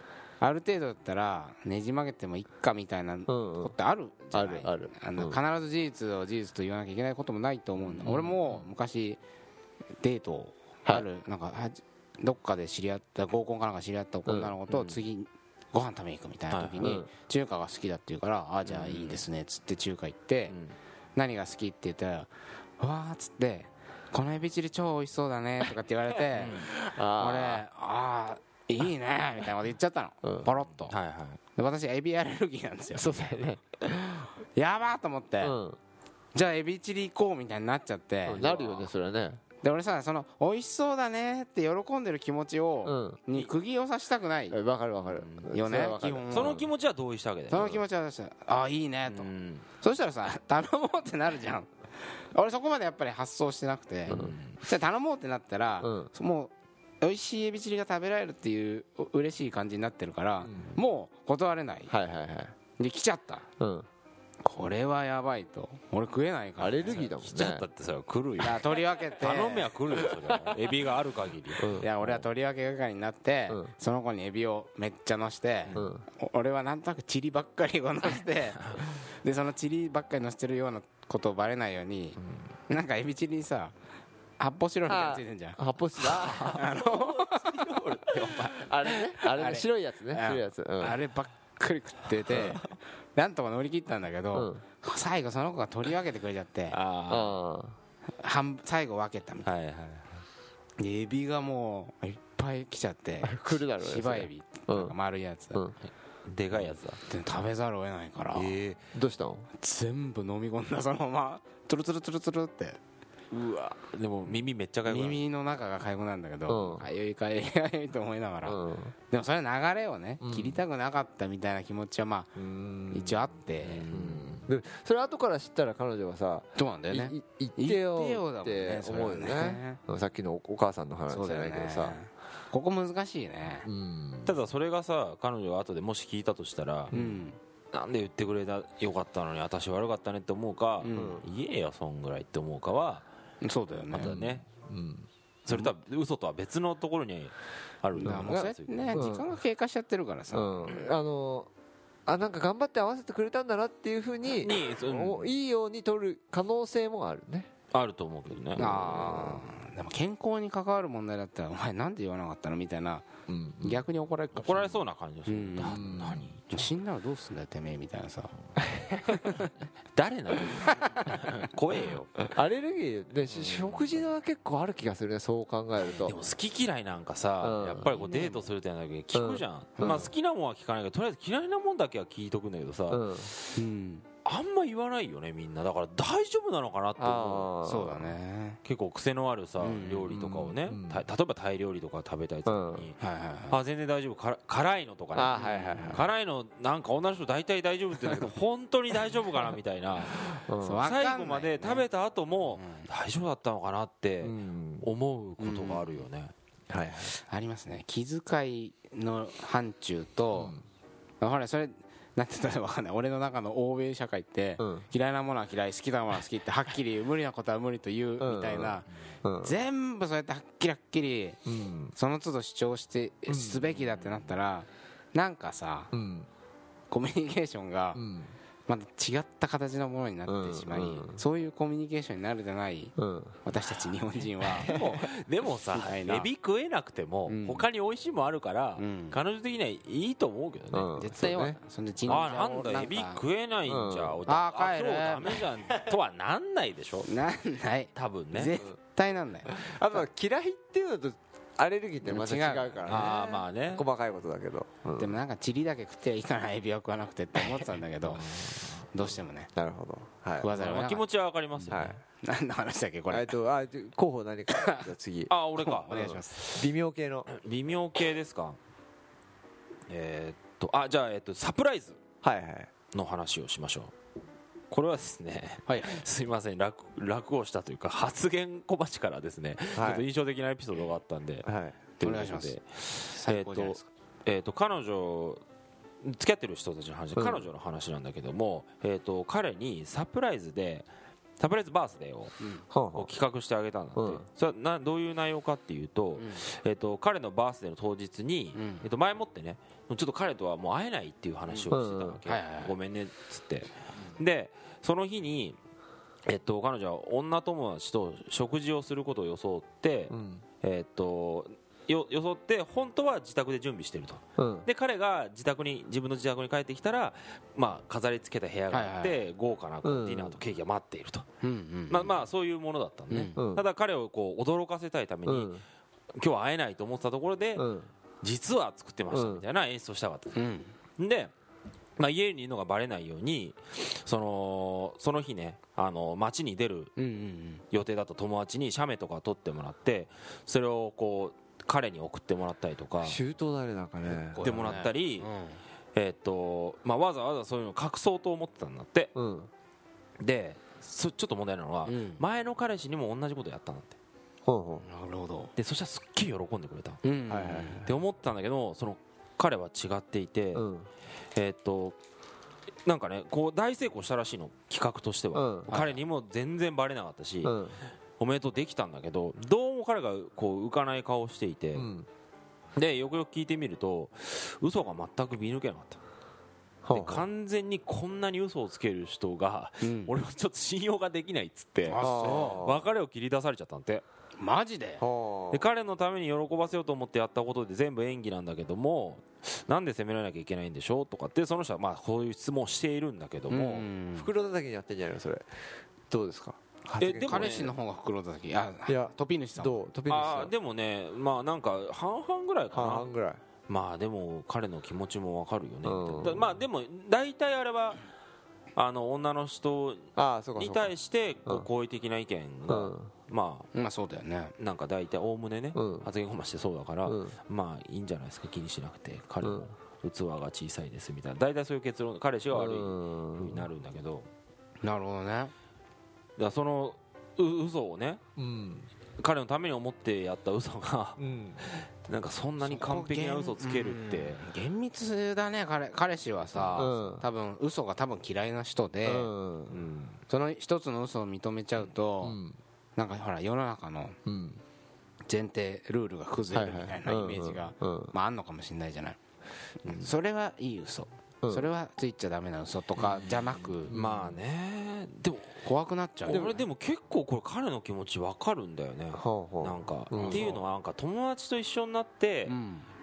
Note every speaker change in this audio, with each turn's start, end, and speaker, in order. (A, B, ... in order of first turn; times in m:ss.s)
0:00.4-0:09.2 A
0:03.3-0:03.7 B
0:04.3-0:05.4 B
0:07.9-0:08.6 C
0:10.0-0:20.5 A
0:14.2-0:14.5 B
0:14.7-0:15.0 C
0:16.5-0:16.8 C
0:16.8-0:17.1 B
0:18.6-0:19.2 C
0:20.5-0:20.8 C
0:21.2-0:30.9 A
0:26.4-0:26.7 C
0:26.6-0:27.6 B
0:30.2-0:30.5 B
0:30.9-0:31.4 C
0:31.6-0:33.5 A
0:32.9-0:34.3 B
0:34.5-0:35.6 A
0:35.4-0:35.8 B
0:36.3-0:38.9 A
0:38.2-0:39.4 B
0:39.6-0:44.6 A
0:42.8-0:43.2 B
0:44.5-0:46.7 B
0:45.1-0:45.5 C
0:45.5-0:46.6 A
0:46.3-0:47.8 C
0:47.5-0:49.3 A
0:49.1-0:49.6 C
0:49.8-1:01.9 A
0:54.1-0:54.6 C
0:54.1-0:54.4 B
0:55.8-0:56.1 B
1:00.4-1:00.8 B
1:01.9-1:02.5 B
1:02.8-1:03.4 A
1:03.6-1:03.9 B
1:04.4-1:07.1 A
1:06.6-1:07.6 B
1:06.9-1:11.7 C
1:08.4-1:09.7 A
1:10.0-1:10.3 B
1:11.6-1:12.2 B
1:11.8-1:22.2 A
1:15.7-1:16.0 B
1:22.7-1:23.7 A
1:24.4-1:28.6 A
1:24.9-1:26.8 B
1:26.6-1:28.5 C
1:28.5-1:31.0 B
1:29.2-1:36.8 A
1:32.3-1:32.6 B
1:34.3-1:34.6 B
1:36.7-1:37.4 C
1:37.1-1:37.8 B
1:38.2-1:39.5 A
1:39.4-1:40.1 C
1:40.8-1:45.6 A
1:43.2-1:44.9 B
1:46.2-1:47.0 C
1:47.0-1:48.5 A
1:48.3-1:48.8 C
1:48.9-1:49.5 B
1:49.6-1:52.8 A
1:53.3-1:55.2 C
1:54.8-2:02.3 A
1:56.5-1:56.9 B
1:58.4-1:58.9 B
2:00.2-2:00.6 B
2:02.4-2:03.2 B
2:02.9-2:03.9 A
2:03.6-2:04.4 C
2:03.9-2:12.0 B
2:06.6-2:09.8 A
2:11.1-2:13.7 A
2:13.6-2:14.4 B
2:14.2-2:16.9 C
2:16.9-2:17.2 B
2:16.9-2:17.4 A
2:17.7-2:23.0 C
2:20.8-2:21.2 A
2:20.9-2:21.2 B
2:23.4-2:24.1 A
2:23.9-2:24.4 C
2:24.0-2:25.1 B
2:25.4-2:29.0 C
2:28.0-2:30.8 A
2:28.0-2:29.3 B
2:30.3-2:31.5 B
2:32.0-2:37.5 B
2:34.4-2:35.3 C
2:37.7-2:38.7 C
2:38.6-2:39.4 B
2:38.6-2:43.1 A
2:43.3-2:43.8 B
2:43.6-2:45.8 A
2:44.3-2:46.7 C
2:45.6-2:46.3 B
2:46.5-2:48.3 A
2:48.7-2:49.0 B
2:49.1-2:49.5 A
2:49.9-2:52.3 C
2:50.6-2:51.2 A
2:52.3-2:56.2 B
2:53.3-2:54.0 C
2:56.0-3:03.6 C
2:57.4-2:57.9 B
2:57.9-2:58.5 A
2:59.1-3:00.1 B
2:59.8-3:00.1 A
3:02.9-3:03.3 B
3:03.5-3:04.0 A
3:04.2-3:07.5 C
3:07.0-3:08.1 B
3:07.6-3:08.6 A
3:08.6-3:13.0 C
3:09.6-3:10.2 A
3:10.1-3:11.0 B
3:12.4-3:12.9 B
3:13.0-3:13.6 A
3:13.5-3:26.3 C
3:15.1-3:16.1 B
3:15.4-3:16.0 A
3:20.0-3:20.8 B
3:20.6-3:21.8 A
3:22.5-3:22.9 A
3:24.2-3:24.9 B
3:25.4-3:26.0 A
3:26.7-3:27.1 B
3:27.1-3:30.6 A
3:30.3-3:30.6 B
3:31.2-3:38.9 A
3:34.6-3:34.8 B
3:38.2-3:39.5 B
3:39.4-3:41.4 A
3:41.4-3:41.9 B
3:41.9-3:45.9 A
3:43.3-3:43.7 B
3:43.8-3:44.3 C
3:45.9-3:46.3 B
3:46.9-3:48.0 A
3:47.9-3:48.3 B
3:48.7-3:54.8 A
3:50.3-3:51.2 B
3:53.0-3:53.4 B
3:54.4-3:55.0 B
3:54.7-4:00.9 C
3:55.7-3:56.3 A
3:57.3-3:57.7 A
3:58.8-3:59.2 A
4:00.7-4:01.6 B
4:01.0-4:03.2 A
4:02.0-4:07.1 C
4:03.7-4:04.2 B
4:04.2-4:05.5 A
4:07.0-4:10.0 A
4:07.9-4:08.5 C
4:09.4-4:15.2 B
4:12.0-4:13.0 A
4:12.9-4:13.8 C
4:15.0-4:18.3 A
4:18.1-4:18.8 C
4:18.9-4:19.5 A
4:19.5-4:20.5 B
4:20.4-4:21.0 A
4:20.5-4:22.0 C
4:21.6-4:23.3 A
4:21.7-4:22.0 B
4:23.1-4:25.3 B
4:24.5-4:24.9 A
4:25.3-4:26.6 C
4:25.6-4:26.4 A
4:26.5-4:27.3 B
4:27.3-4:28.6 C
4:29.9-4:32.0 C
4:32.2-4:32.7 B
4:32.9-4:33.9 C
4:34.7-4:41.4 C
4:35.7-4:36.0 A
4:39.7-4:40.0 B
4:41.4-4:41.8 B
4:42.0-4:45.4 C
4:42.0-4:43.8 A
4:46.0-4:50.9 C
4:47.2-4:47.5 B
4:51.4-4:52.3 C
4:52.7-4:53.1 B
4:52.9-5:05.6 C
4:54.0-4:54.2 B
4:58.5-4:58.8 A
5:01.7-5:02.2 B
5:02.2-5:02.8 A
5:06.2-5:21.2 C
5:10.1-5:10.4 B
5:14.4-5:14.7 B
5:18.7-5:19.2 A
5:19.8-5:20.4 B
5:21.4-5:22.2 A
5:21.9-5:25.6 C
5:23.1-5:23.4 A
5:23.4-5:23.6 B
5:25.2-5:25.6 B
5:26.2-5:27.6 C
5:27.6-5:27.9 B
5:28.2-5:30.4 C
5:29.1-5:29.4 B
5:30.3-5:30.7 A
5:31.0-5:31.3 C
5:32.0-5:36.9 C
5:37.0-5:37.6 A
5:37.7-5:43.2 C
5:43.0-5:44.6 B
5:44.2-5:45.6 A
5:44.4-5:45.3 C
5:45.9-5:49.1 C
5:49.1-5:49.5 B
5:50.2-5:53.9 C
5:51.9-5:52.2 A
5:54.4-5:54.8 B
5:54.8-5:55.5 A
5:55.6-5:57.0 C
5:57.0-5:57.9 A
5:57.3-5:57.9 B
5:57.8-6:00.7 C
6:00.5-6:00.9 B
6:01.3-6:02.0 C
6:02.8-6:07.6 C
6:05.3-6:06.0 B
6:07.4-6:07.8 B
6:08.2-6:11.9 C
6:11.7-6:12.1 B
6:12.8-6:16.0 C
6:16.8-6:17.3 B
6:16.9-6:24.0 C
6:19.8-6:20.1 A
6:21.9-6:22.7 A
6:22.0-6:22.8 B
6:24.4-6:25.0 A
6:25.0-6:25.6 B
6:25.5-6:33.8 C
6:33.5-6:34.3 A
6:34.2-6:35.5 B
6:36.1-6:37.7 B
6:37.0-6:37.7 C
6:37.2-6:39.7 A
6:38.9-6:40.5 B
6:40.1-6:43.1 C
6:42.7-6:43.4 B
6:43.7-6:48.0 C
6:45.8-6:46.5 B
6:48.8-6:53.7 C
6:50.2-6:50.9 B
6:52.7-6:53.1 B
6:53.7-6:54.5 A
6:54.6-7:04.3 C
6:55.7-6:56.1 B
6:57.0-6:57.4 B
7:02.5-7:03.7 B
7:04.8-7:05.5 A
7:06.4-7:08.2 C
7:08.4-7:08.9 B
7:09.2-7:14.4 C
7:11.2-7:11.6 B
7:12.6-7:19.3 A
7:16.5-7:16.9 C
7:16.8-7:17.2 B
7:19.0-7:19.8 B
7:19.7-7:20.2 C
7:20.3-7:22.4 A
7:22.2-7:22.6 B
7:23.0-7:24.2 A
7:24.2-7:24.6 B
7:25.3-7:29.2 A
7:26.5-7:28.1 B
7:29.8-7:33.9 A
7:29.8-7:30.1 C
7:31.4-7:31.7 B
7:33.0-7:35.6 C
7:33.9-7:34.4 B
7:35.6-7:36.6 A
7:36.2-7:42.5 C
7:36.3-7:36.6 B
7:39.1-7:40.6 B
7:40.1-7:40.6 A
7:42.5-7:42.9 A